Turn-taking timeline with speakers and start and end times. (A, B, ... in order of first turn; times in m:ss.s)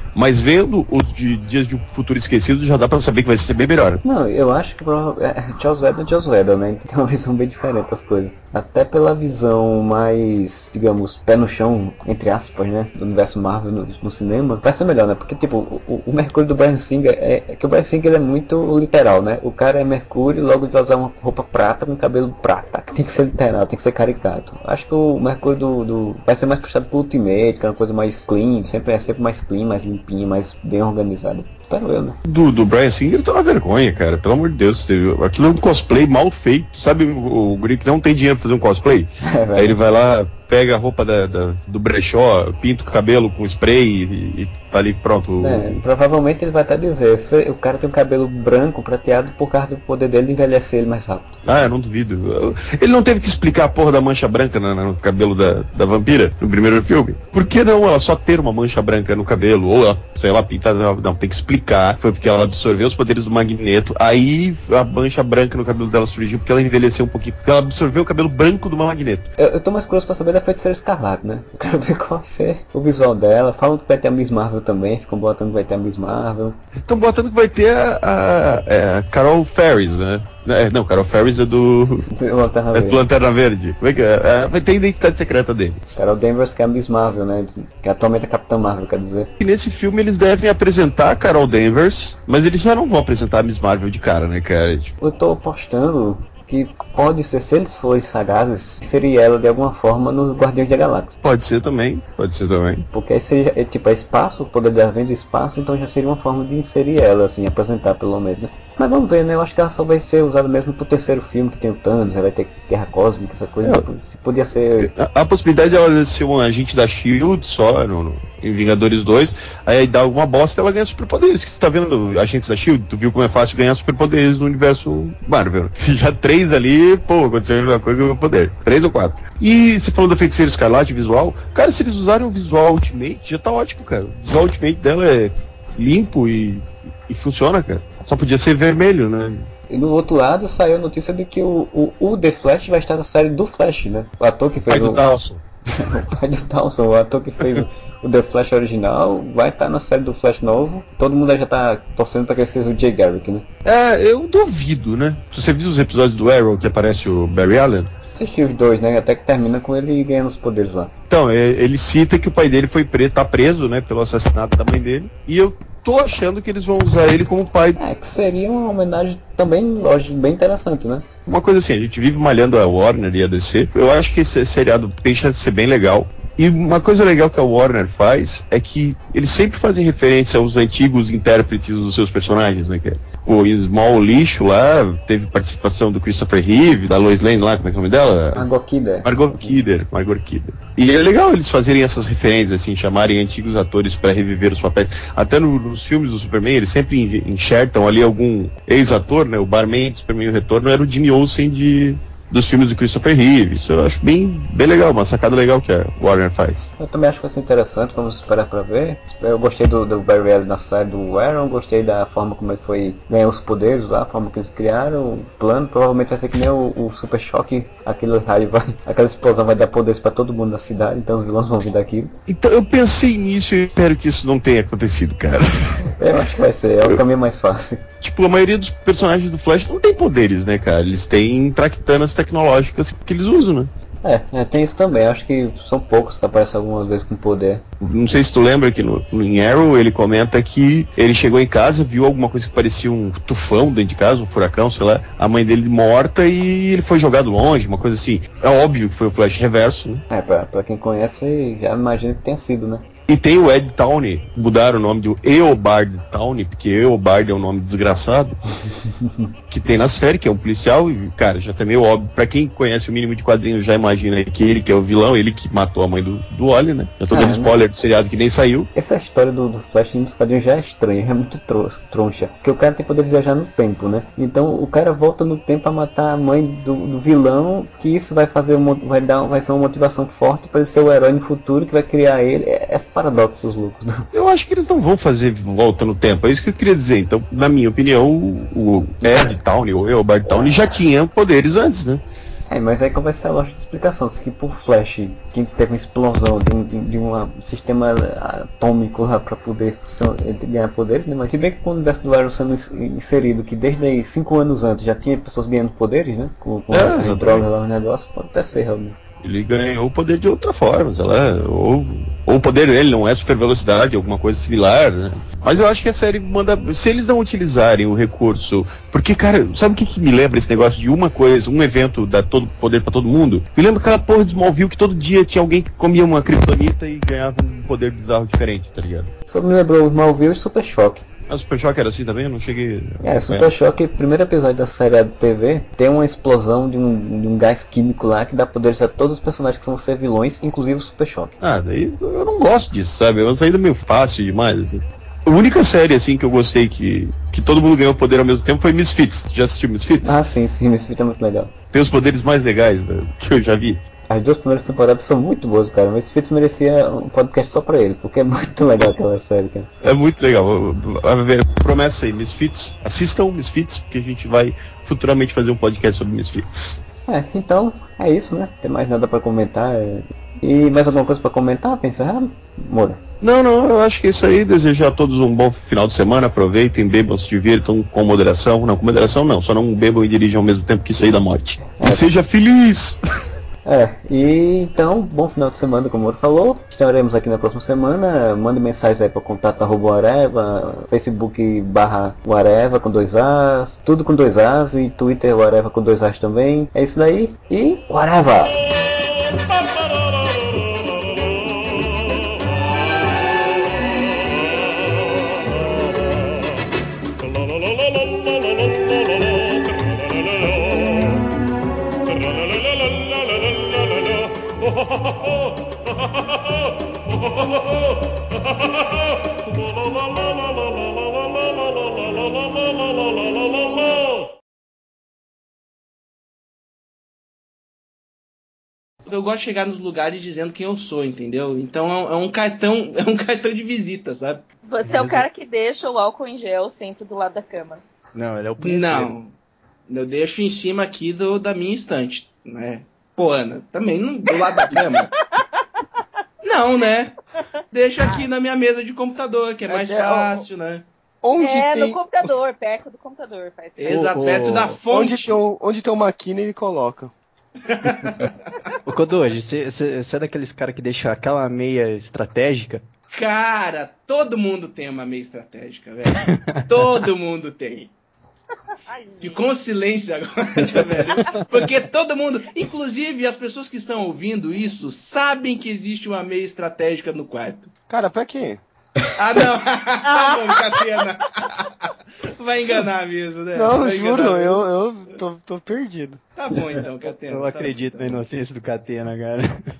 0:00.2-0:04.0 A
0:04.0-0:32.2 B
0:32.2-0:45.8 A
0:39.2-0:39.8 B
0:45.4-0:51.5 B
0:51.4-1:09.3 A
1:09.4-1:16.6 B
1:16.8-1:22.0 A
1:22.1-1:23.0 B
1:22.7-1:25.8 A
1:26.0-1:29.3 B
1:29.4-1:34.9 A
1:35.0-1:41.2 B
1:41.2-1:42.9 A
1:42.9-1:54.9 B
1:54.8-2:19.5 A
2:19.7-2:25.0 B
2:24.7-2:25.4 A
2:25.9-2:33.5 B
2:33.6-2:37.9 A
2:38.2-2:40.9 B
2:41.1-2:47.8 A
2:47.8-2:51.1 B
2:51.3-3:08.4 A
3:08.4-3:09.6 B
3:09.0-3:26.7 A
3:26.8-3:42.1 B
3:42.3-3:46.2 A
3:46.0-3:47.8 B
3:48.0-3:53.7 A
3:54.0-3:57.6 B
3:57.8-4:10.0 A
4:10.1-4:12.8 B
4:13.1-4:18.4 A
4:18.8-4:19.3 B
4:19.5-4:28.7 A
4:27.1-4:27.5 B
4:28.8-4:44.1 B
4:44.1-4:52.0 A
4:52.5-5:09.0 B
5:06.7-5:07.4 A
5:09.2-5:29.1 A
5:29.3-5:31.0 B
5:31.3-5:33.5 A
5:33.0-5:41.4 B
5:41.4-5:50.2 A
5:50.0-5:51.6 B
5:51.7-5:53.8 A
5:54.1-5:59.7 B
5:59.8-6:06.8 A
6:07.1-6:13.0 B
6:13.2-6:23.0 A
6:21.6-6:22.1 B
6:23.6-6:38.6 B
7:09.1-7:14.4 C
7:14.7-7:17.8 D
7:14.9-7:15.2 E
7:18.2-7:19.1 E
7:18.6-7:19.3 C
7:19.9-7:25.1 C
7:24.4-7:24.8 D
7:25.3-7:25.6 D
7:26.4-7:27.2 C
7:27.7-7:30.9 C
7:29.7-7:30.4 F
7:31.2-7:32.4 F
7:31.3-7:34.1 D
7:33.8-7:35.4 C
7:33.9-7:34.8 E
7:34.9-7:37.1 F
7:37.6-7:38.3 C
7:38.9-7:42.8 E
7:43.1-7:47.9 C
7:46.2-7:46.6 E
7:48.9-7:49.5 D
7:49.2-7:57.7 C
7:51.2-7:51.7 E
7:57.9-7:58.6 F
7:59.2-8:05.2 C
8:03.5-8:06.2 F
8:06.4-8:08.2 C
8:07.3-8:09.5 E